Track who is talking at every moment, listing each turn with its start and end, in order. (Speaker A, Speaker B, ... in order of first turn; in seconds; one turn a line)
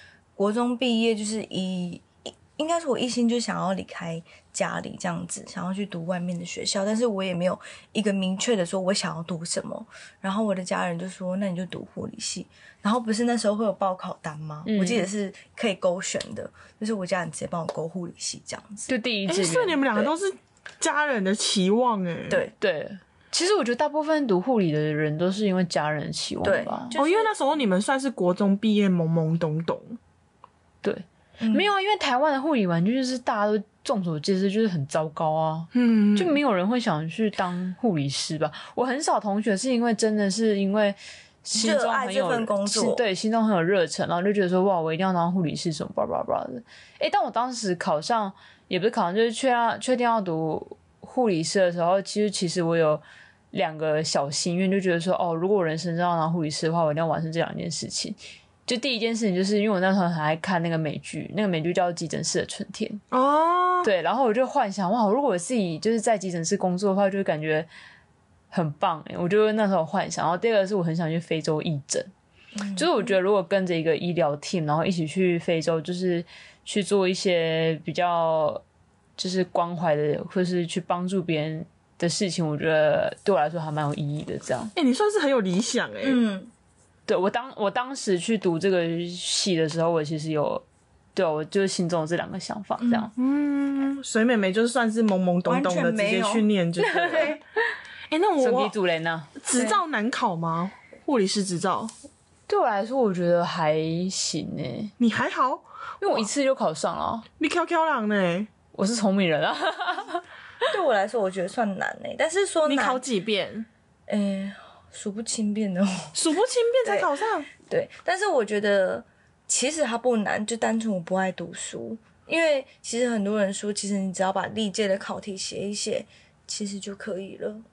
Speaker A: 0.4-18.9
Speaker B: 14.6-15.1
Speaker B: 18.9-20.1
Speaker C: 19.3-22.4
Speaker B: 22.6-26.9
Speaker A: 26.4-27.3
Speaker C: 26.9-30.0
Speaker B: 30.8-63.0
Speaker A: 31.4-31.7
Speaker C: 35.7-36.4
Speaker A: 41.6-43.0
Speaker C: 63.1-63.9
Speaker B: 63.8-67.7
Speaker B: 68.5-72.1
Speaker A: 72.5-73.2
Speaker B: 72.7-78.6
Speaker B: 79.2-84.7
Speaker C: 84.8-86.2
Speaker A: 86.0-86.5
Speaker B: 87.1-90.6
Speaker B: 91.1-93.1
Speaker A: 92.8-93.1
Speaker C: 93.1-97.4
Speaker A: 95.5-96.5
Speaker B: 96.8-97.3
Speaker C: 98.1-98.7
Speaker B: 98.4-99.3
Speaker C: 99.4-101.9
Speaker A: 99.5-99.8
Speaker B: 102.5-104.9
Speaker C: 105.0-106.1
Speaker B: 106.0-107.2
Speaker C: 107.4-108.5
Speaker B: 108.7-110.2
Speaker A: 110.7-113.0
Speaker C: 112.6-113.7
Speaker A: 114.1-116.2
Speaker C: 116.1-117.5
Speaker A: 116.8-127.6